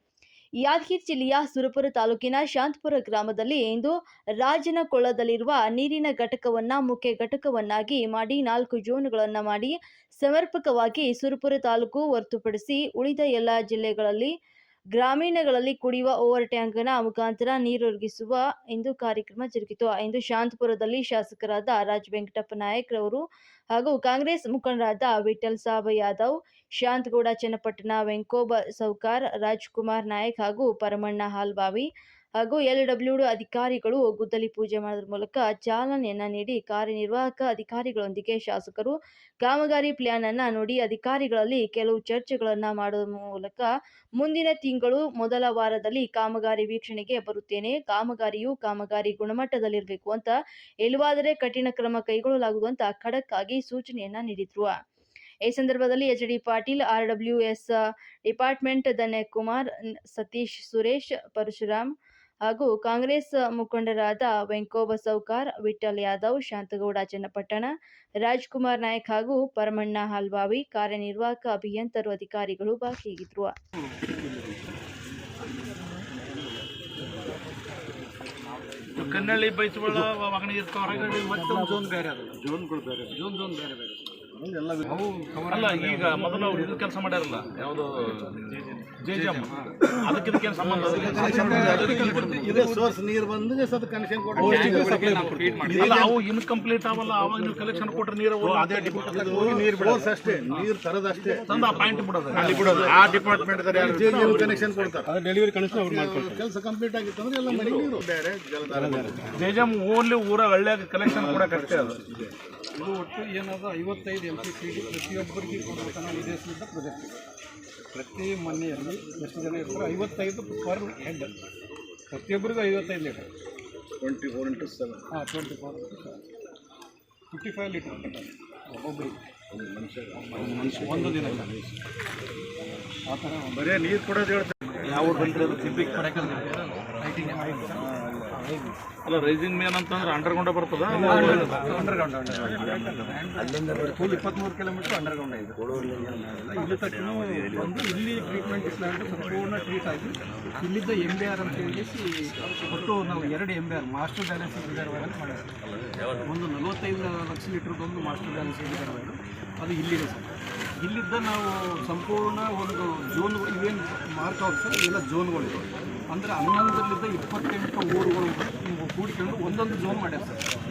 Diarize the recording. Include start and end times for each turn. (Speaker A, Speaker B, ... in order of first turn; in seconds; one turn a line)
Speaker A: 0.6-14.3
Speaker A: 14.9-23.2
Speaker A: 23.7-31.9
Speaker A: 32.4-54.7
Speaker A: 55.5-57.8
Speaker A: 58.3-61.9
Speaker A: 62.5-67.7
Speaker A: 68.2-73.5
Speaker B: 73.8-74.7
Speaker B: 78.9-80.0
Speaker C: 78.9-81.3
Speaker B: 80.9-82.4
Speaker D: 82.4-83.2
Speaker B: 83.1-84.1
Speaker D: 84.3-85.0
Speaker B: 84.8-87.5
Speaker C: 85.5-88.4
Speaker B: 89.0-89.9
Speaker C: 89.1-92.7
Speaker D: 90.5-96.2
Speaker B: 90.6-92.9
Speaker B: 94.3-96.0
Speaker C: 94.4-99.9
Speaker D: 98.4-101.5
Speaker B: 99.0-102.8
Speaker C: 101.5-105.0
Speaker D: 102.3-105.1
Speaker B: 105.1-105.9
Speaker D: 105.7-109.6
Speaker C: 107.5-108.0
Speaker B: 108.8-109.3
Speaker C: 109.3-112.0
Speaker D: 111.0-112.3
Speaker B: 112.8-117.2
Speaker B: 117.9-121.3
Speaker B: 122.1-123.3
Speaker D: 124.0-125.0
Speaker B: 125.1-126.2
Speaker B: 127.3-129.2
Speaker D: 129.5-131.7
Speaker B: 130.2-131.5
Speaker B: 133.1-133.9
Speaker D: 133.8-134.5
Speaker C: 134.8-136.2
Speaker B: 134.8-138.7
Speaker D: 137.7-138.3
Speaker C: 139.1-141.8
Speaker B: 140.9-155.5
Speaker B: 156.3-170.4